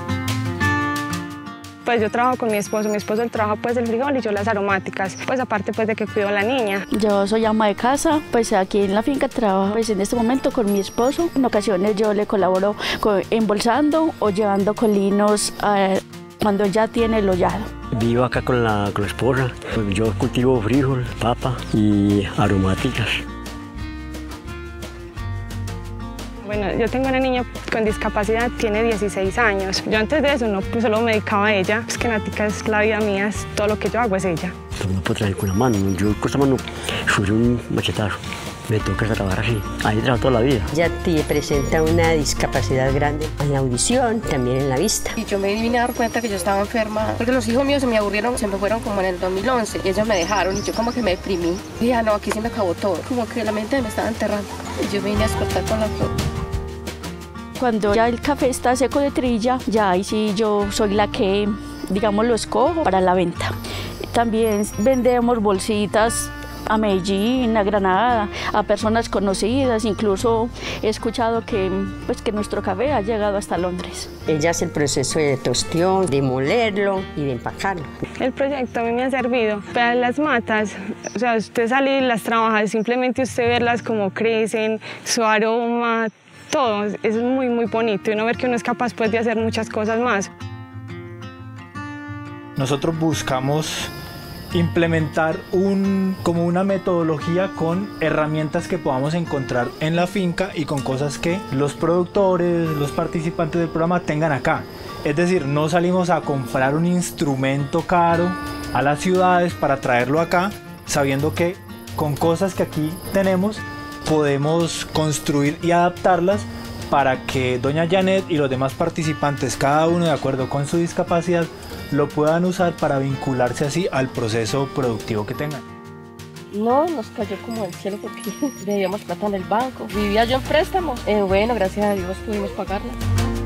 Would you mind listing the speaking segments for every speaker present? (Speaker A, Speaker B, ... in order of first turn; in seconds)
Speaker A: 1.9-6.8, 26.4-34.5, 78.2-90.3
Speaker B: 6.9-17.7, 57.6-63.5, 64.1-74.1
Speaker C: 17.9-23.1, 34.8-38.2, 38.7-40.7
Speaker D: 40.7-45.2, 74.3-78.0
Speaker E: 45.2-56.1, 126.5-132.9
Speaker F: 92.6-93.9, 94.5-125.6